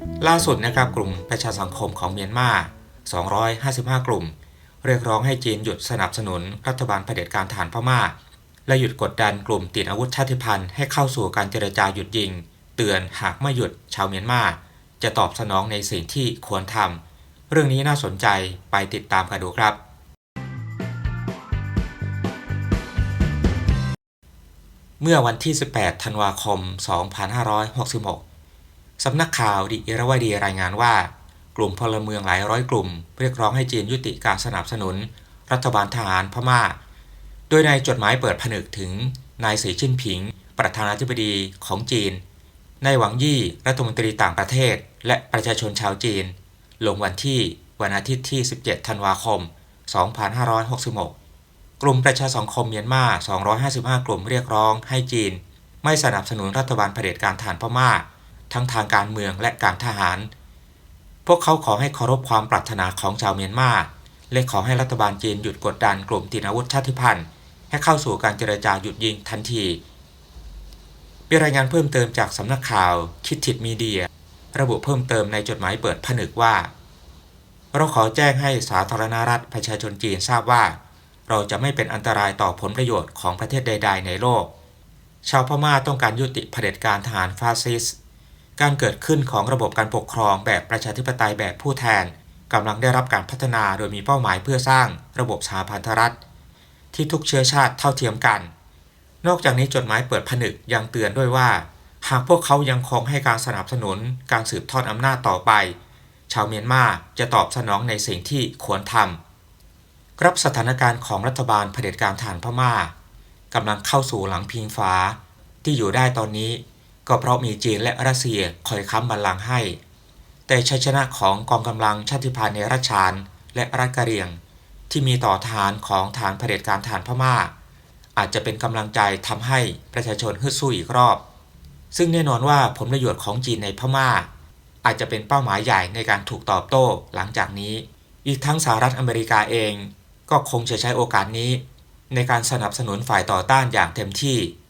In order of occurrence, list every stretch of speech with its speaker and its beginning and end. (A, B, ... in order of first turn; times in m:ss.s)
0:00.2-0:08.1 A
0:08.7-0:19.8 A
0:25.0-0:28.2 A
0:29.0-0:36.8 A
0:37.5-0:42.2 A
0:42.8-0:51.1 A
0:51.8-1:00.3 A
1:01.3-1:09.8 A
1:11.3-1:16.7 A
1:17.7-1:20.8 A
1:21.3-1:24.5 A
1:25.2-1:28.0 A
1:28.6-1:36.2 A
1:36.9-1:38.5 A
1:39.2-1:45.8 A
1:46.3-1:49.2 A
1:50.2-1:52.9 A
1:53.5-1:59.8 A
2:00.5-2:04.4 A
2:04.9-2:07.5 A
2:08.2-2:11.2 A
2:11.9-2:14.3 A
2:14.8-2:24.5 A